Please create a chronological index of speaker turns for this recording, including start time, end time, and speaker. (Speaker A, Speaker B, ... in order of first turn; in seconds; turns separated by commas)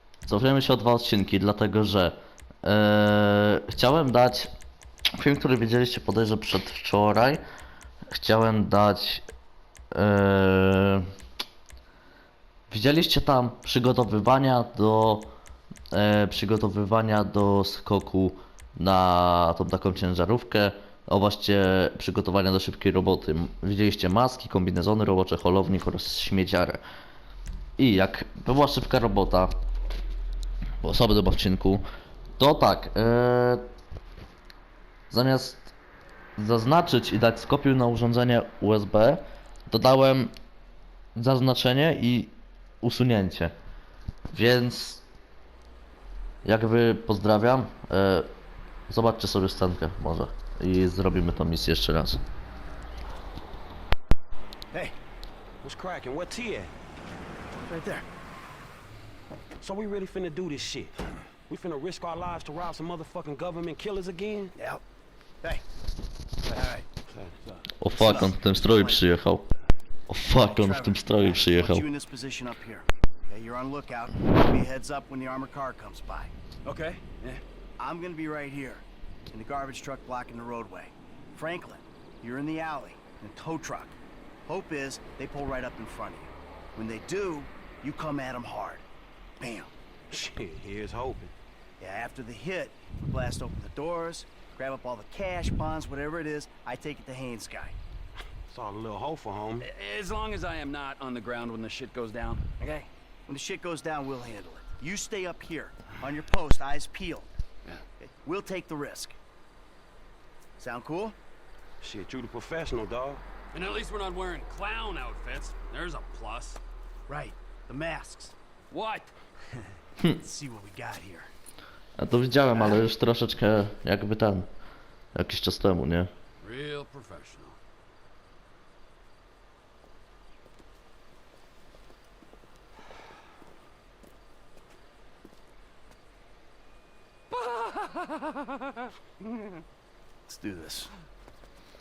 Speaker A: 0.2-4.5, Speaker A: 5.2-7.4, Speaker A: 8.1-9.2, Speaker A: 9.9-11.1, Speaker A: 12.7-15.3, Speaker A: 15.9-26.8, Speaker A: 27.8-29.5, Speaker A: 30.8-31.8, Speaker A: 32.4-33.6, Speaker A: 35.1-35.7, Speaker A: 36.4-40.3, Speaker A: 41.1-43.5, Speaker A: 44.3-45.0, Speaker A: 46.4-48.3, Speaker A: 48.9-52.2, Speaker B: 55.6-56.7, Speaker C: 57.6-58.0, Speaker B: 59.6-64.5, Speaker C: 64.5-64.8, Speaker C: 66.5-66.9, Speaker B: 66.5-67.6, Speaker A: 67.8-69.4, Speaker C: 67.9-69.0, Speaker A: 70.1-71.8, Speaker C: 70.3-76.3, Speaker D: 76.7-77.4, Speaker C: 77.8-88.8, Speaker C: 89.4-89.7, Speaker B: 90.1-91.3, Speaker C: 91.8-97.8, Speaker B: 98.5-99.7, Speaker D: 99.6-102.5, Speaker C: 102.6-109.2, Speaker C: 110.6-111.2, Speaker B: 111.8-113.2, Speaker D: 113.5-116.6, Speaker C: 117.1-118.3, Speaker D: 118.7-119.1, Speaker C: 120.1-121.3, Speaker A: 122.0-124.5, Speaker A: 125.1-126.1, Speaker D: 126.4-127.5, Speaker C: 140.3-140.9